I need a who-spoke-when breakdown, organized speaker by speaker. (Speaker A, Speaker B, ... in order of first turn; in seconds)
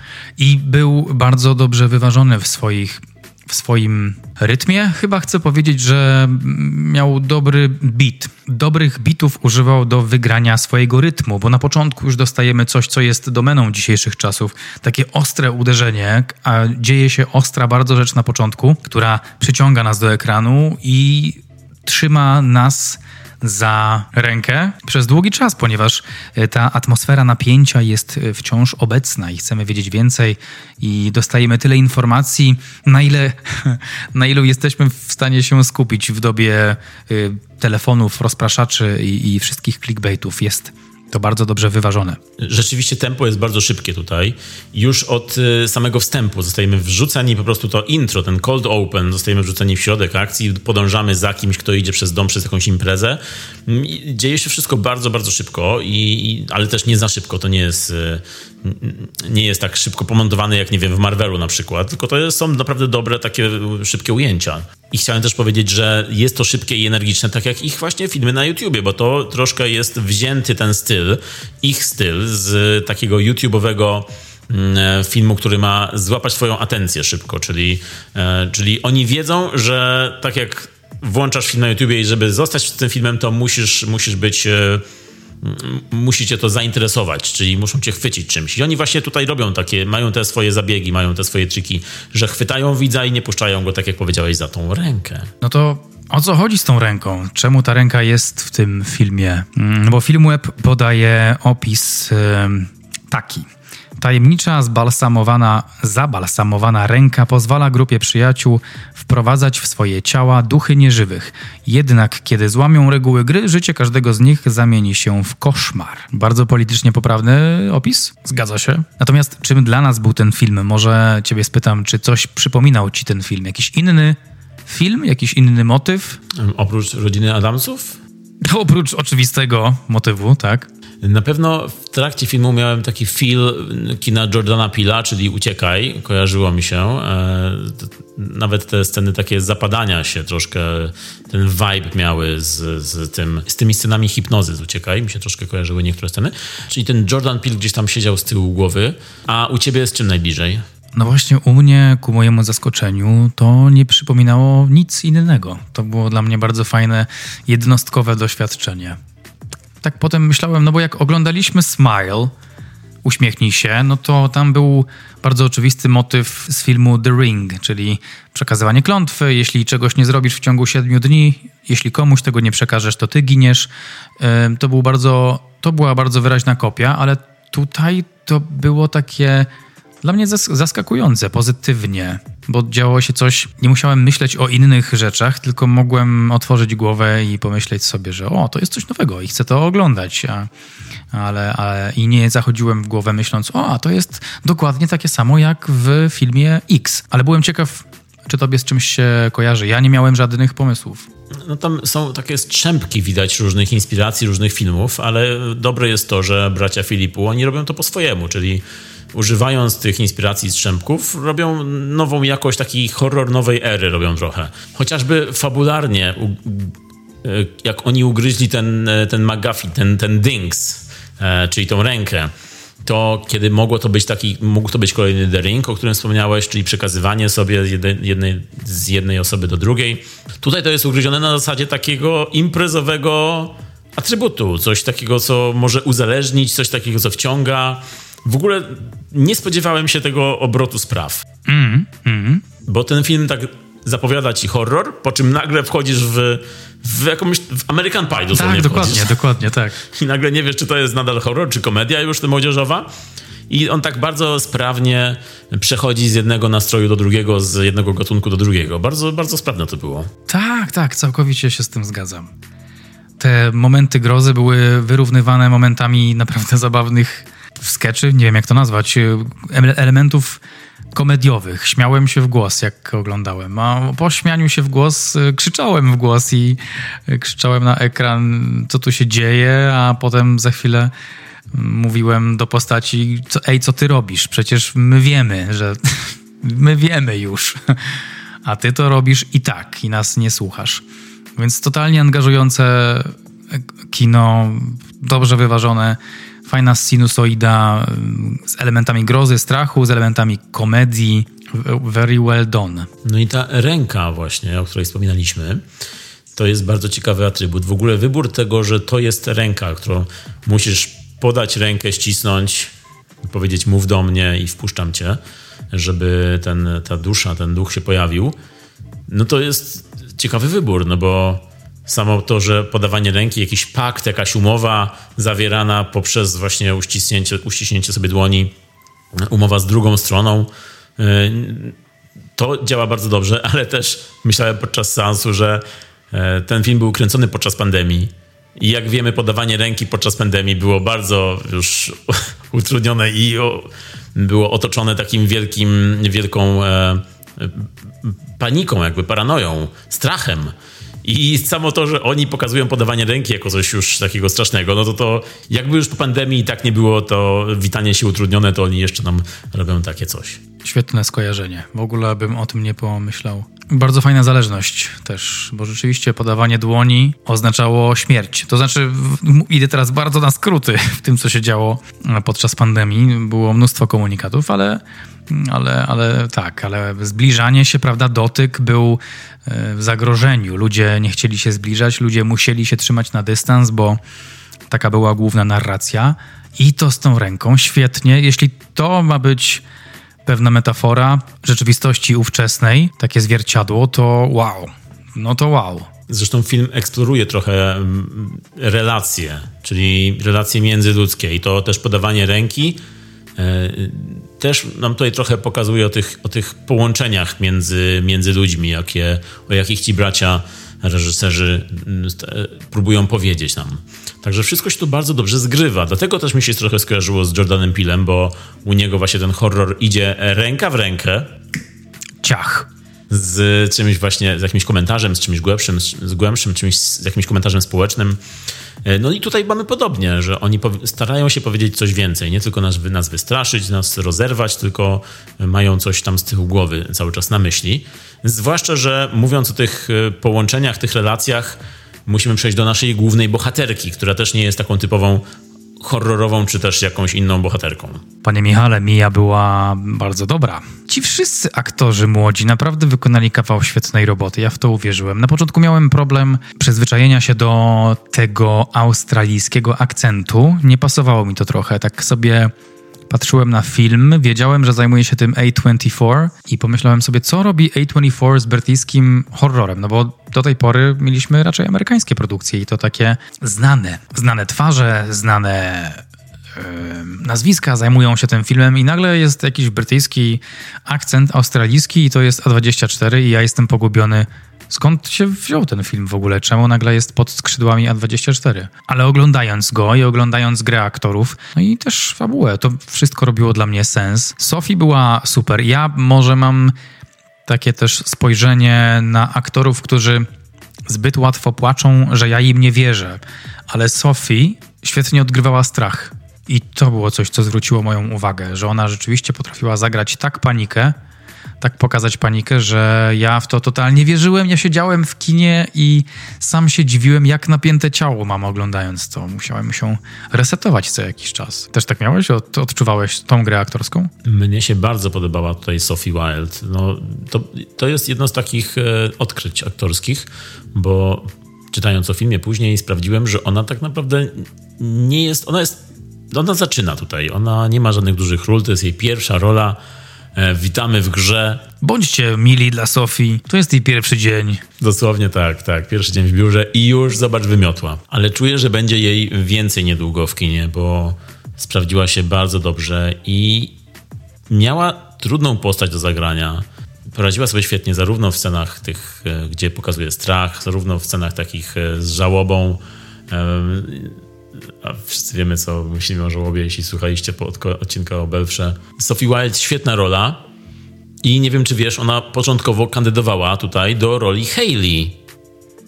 Speaker A: 0.4-42.2, 95.4-103.5, 104.0-126.2, 128.4-130.7, 150.9-159.0, 159.8-162.3, 163.0-179.5, 180.0-190.5, 191.1-201.1, 241.5-242.4, 248.3-249.8, 260.3-262.3, 263.2-270.4, 270.9-280.9, 281.5-290.8, 291.4-302.9, 360.6-384.0, 384.7-389.6, 390.3-395.9, 422.2-422.7, 448.2-462.5, 463.1-476.0, 476.6-496.8, 497.5-500.3, 500.9-511.0, 511.6-524.1, 541.8-544.6
Speaker B: 42.4-84.8, 85.4-95.3, 126.3-128.0, 131.0-150.6, 201.4-222.3, 222.8-241.2, 242.7-249.2, 249.8-252.9, 253.5-260.1, 303.0-305.6, 306.3-315.2, 315.7-318.4, 319.1-328.5, 329.1-331.8, 332.4-350.5, 351.0-360.4, 396.1-402.8, 403.4-421.3, 423.1-428.2, 428.8-445.2, 445.8-448.1, 524.2-539.8, 540.4-541.7, 544.8-553.8, 554.5-570.5, 571.2-575.2